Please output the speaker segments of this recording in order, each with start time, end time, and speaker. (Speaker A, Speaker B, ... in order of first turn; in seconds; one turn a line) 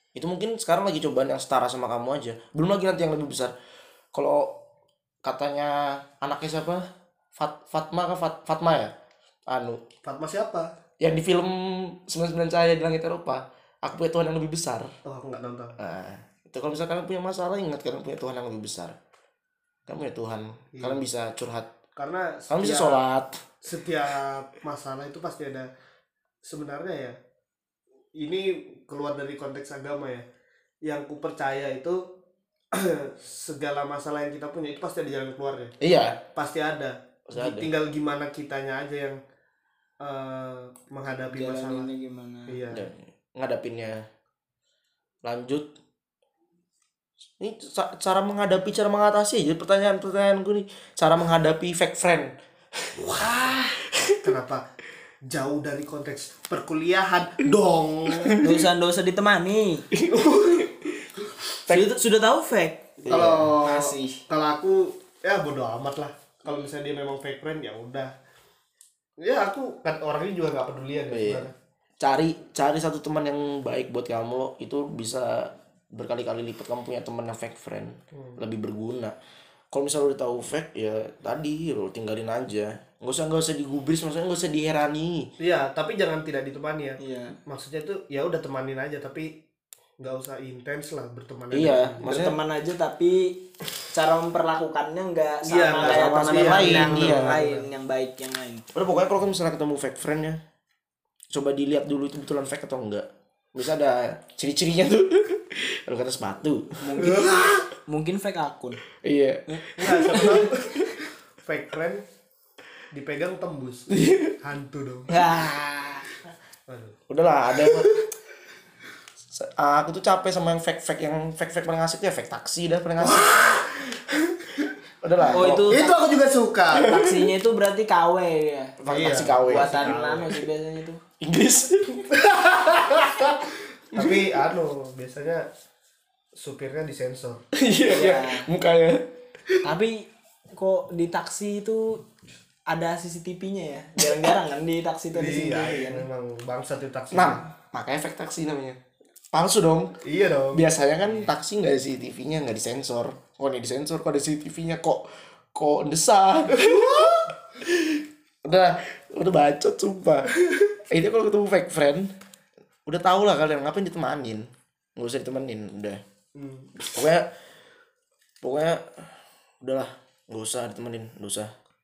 Speaker A: 0.2-3.5
Speaker A: 4.1-4.7
Speaker A: 5.2-6.9
Speaker A: 7.4-8.9
Speaker A: 9.5-9.8
Speaker B: 10.0-10.7
Speaker A: 11.0-14.9
Speaker B: 15.1-15.8
Speaker A: 15.8-19.0
Speaker A: 19.9-21.7
Speaker B: 20.8-21.0
Speaker B: 22.0-23.0
Speaker A: 22.5-23.4
Speaker B: 23.6-25.7
Speaker B: 26.4-27.2
Speaker B: 28.2-30.2
Speaker B: 30.8-32.0
Speaker B: 32.7-35.7
Speaker A: 35.8-36.2
Speaker B: 36.3-39.2
Speaker A: 37.3-37.7
Speaker B: 40.0-41.9
Speaker C: 41.3-42.6
Speaker B: 42.5-42.9
Speaker A: 42.7-44.0
Speaker A: 45.2-45.7
Speaker A: 47.4-53.2
Speaker C: 53.2-53.8
Speaker A: 53.9-54.2
Speaker B: 54.2-54.7
Speaker B: 55.2-58.4
Speaker A: 58.2-58.4
Speaker C: 58.4-59.9
Speaker A: 59.9-61.0
Speaker B: 60.1-60.7
Speaker A: 61.7-61.9
Speaker C: 61.7-64.2
Speaker A: 63.1-63.5
Speaker B: 63.1-68.1
Speaker B: 69.2-71.5
Speaker A: 71.1-71.5
Speaker A: 72.0-79.2
Speaker A: 79.7-85.3
Speaker B: 85.4-89.4
Speaker C: 87.0-87.4
Speaker B: 90.0-92.3
Speaker A: 91.5-92.4
Speaker C: 92.0-98.7
Speaker B: 95.4-97.7
Speaker A: 95.8-97.4
Speaker A: 98.7-100.4
Speaker A: 101.3-107.2
Speaker C: 106.8-108.8
Speaker B: 107.0-107.7
Speaker A: 109.0-110.9
Speaker C: 109.5-110.4
Speaker B: 109.8-112.0
Speaker B: 112.9-115.2
Speaker A: 113.9-114.4
Speaker C: 115.1-116.2
Speaker B: 116.7-117.0
Speaker A: 117.1-117.9
Speaker B: 117.5-118.1
Speaker A: 119.3-123.9
Speaker B: 123.0-123.8
Speaker A: 125.0-125.8
Speaker C: 125.3-126.0
Speaker B: 125.4-127.0
Speaker C: 126.7-128.8
Speaker A: 126.9-127.2
Speaker A: 128.8-129.9
Speaker B: 128.9-130.4
Speaker C: 129.4-131.0
Speaker A: 131.2-132.1
Speaker B: 132.1-135.5
Speaker B: 136.4-137.4
Speaker A: 137.5-139.1
Speaker C: 137.9-138.5
Speaker C: 139.6-142.0
Speaker C: 142.7-146.1
Speaker B: 145.1-147.4
Speaker A: 147.1-148.8
Speaker A: 149.3-150.0
Speaker B: 150.0-150.7
Speaker A: 150.5-162.1
Speaker B: 156.5-157.3
Speaker A: 162.9-166.0
Speaker B: 166.3-166.9
Speaker A: 166.9-167.3
Speaker A: 168.4-171.5